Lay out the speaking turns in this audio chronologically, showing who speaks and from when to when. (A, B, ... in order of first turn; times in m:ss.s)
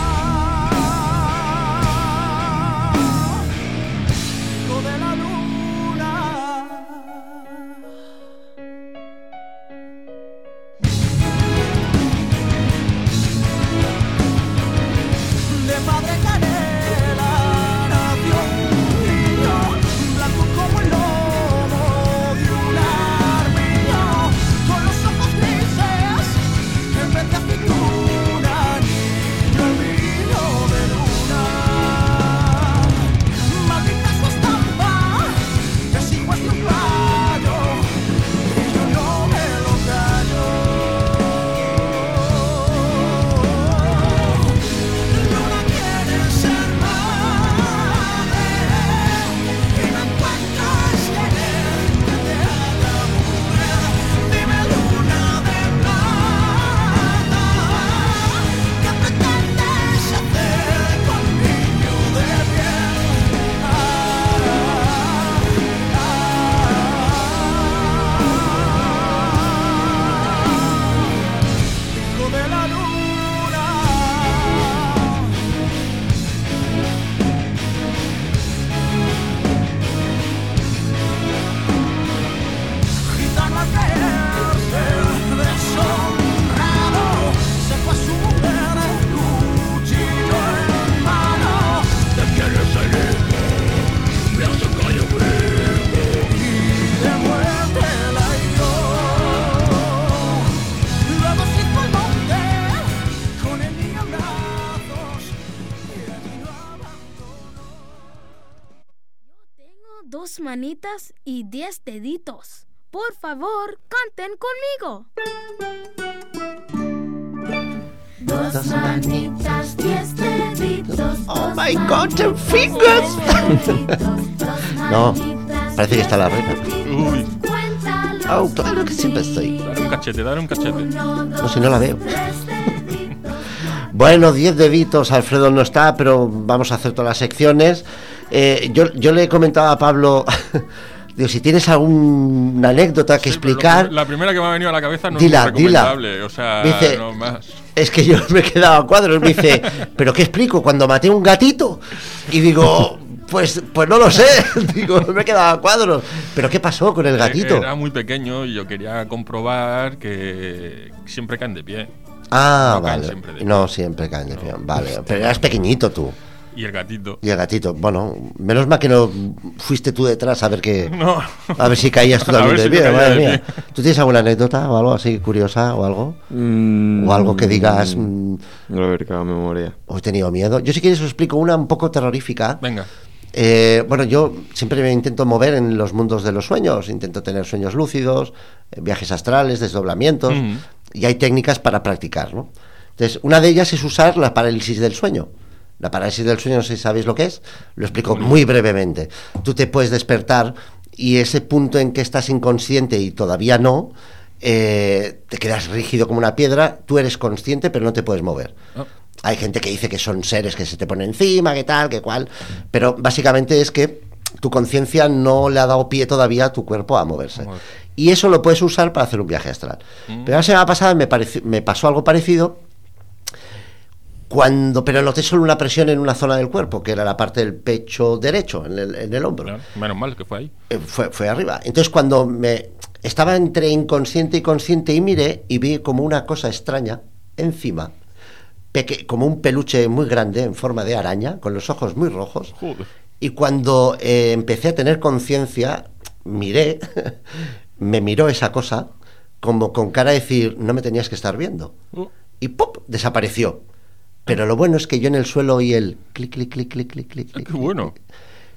0:15.7-0:26.4 A
0:26.9-0:32.4 A
0:33.5-0:35.4 A
0:35.9-0:37.8 A
0:38.5-0:40.7 A
0:41.9-0:44.2 A
0:45.1-1:02.9 A
1:04.4-1:04.6 A
1:12.1-1:13.8 A
1:23.1-1:32.7 A
1:34.4-1:35.1 A
1:36.9-1:39.5 A
1:41.1-1:42.8 A
1:43.4-1:45.2 A
1:46.1-1:47.1 A
1:49.3-1:55.1 B
1:58.2-2:09.8 B
1:58.3-2:04.0 C
2:04.7-2:06.9 C
2:06.8-2:07.3 D
2:08.2-2:09.6 C
2:09.6-2:11.0 D
2:10.7-2:13.5 B
2:11.4-2:12.2 C
2:13.8-2:24.0 C
2:23.2-2:27.6 D
2:25.1-2:26.0 C
2:26.6-2:27.0 C
2:27.8-2:37.7 C
2:37.2-2:41.9 D
2:42.3-2:46.2 C
2:42.6-2:43.6 D
2:44.3-2:45.4 D
2:46.5-2:47.2 D
2:47.2-2:51.0 C
2:50.8-2:53.6 D
2:51.6-2:56.2 C
2:56.3-2:58.1 E
2:57.0-2:58.4 C
2:58.7-2:59.8 E
2:59.9-3:02.6 C
3:02.6-3:02.9 D
3:03.3-3:28.6 C
3:10.3-3:10.6 D
3:18.0-3:18.4 D
3:29.2-3:42.6 C
3:37.4-3:37.6 D
3:40.1-3:40.3 D
3:44.3-3:49.6 C
3:49.4-3:50.5 D
3:50.7-3:57.9 C
3:58.7-4:02.6 C
4:02.6-4:02.9 D
4:03.2-4:11.8 C
4:12.4-4:13.6 C
4:14.3-4:17.8 C
4:17.3-4:17.9 D